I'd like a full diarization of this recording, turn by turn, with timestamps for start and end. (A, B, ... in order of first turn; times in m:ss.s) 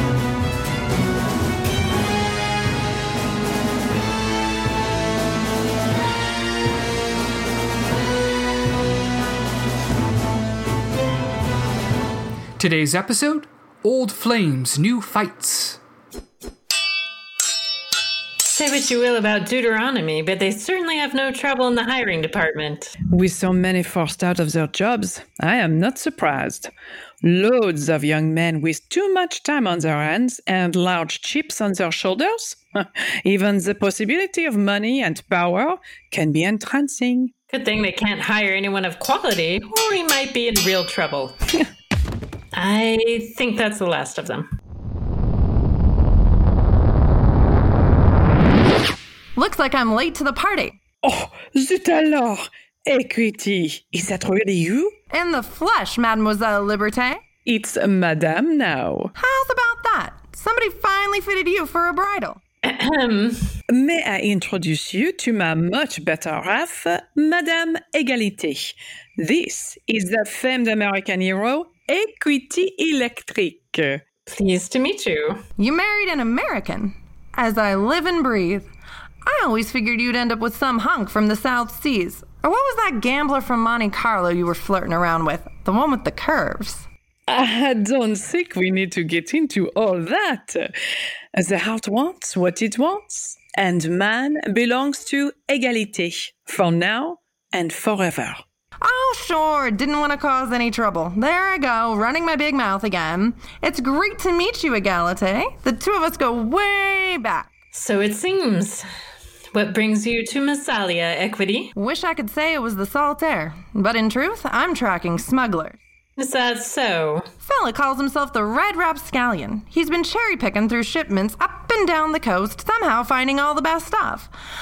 0:12.6-0:15.8 A
0:18.5-0:22.9 B
0:23.1-0:26.7 C
0:27.2-0:37.3 C
0:37.5-0:41.4 B
0:42.5-0:44.5 B
0:49.4-0:50.8 D
0:51.0-0:55.0 C
0:55.1-0:57.2 D
0:57.5-0:59.1 C
0:59.2-1:02.4 D
1:02.7-1:03.5 B
1:03.7-1:14.0 C
1:14.3-1:15.4 B
1:15.6-1:18.7 D
1:19.2-1:26.9 D
1:27.3-1:30.7 C
1:31.4-1:38.4 C
1:38.8-1:47.5 D
1:47.7-1:48.8 B
1:49.5-1:51.7 B
1:51.8-1:55.8 D
1:56.2-1:57.3 B
1:57.4-2:04.3 D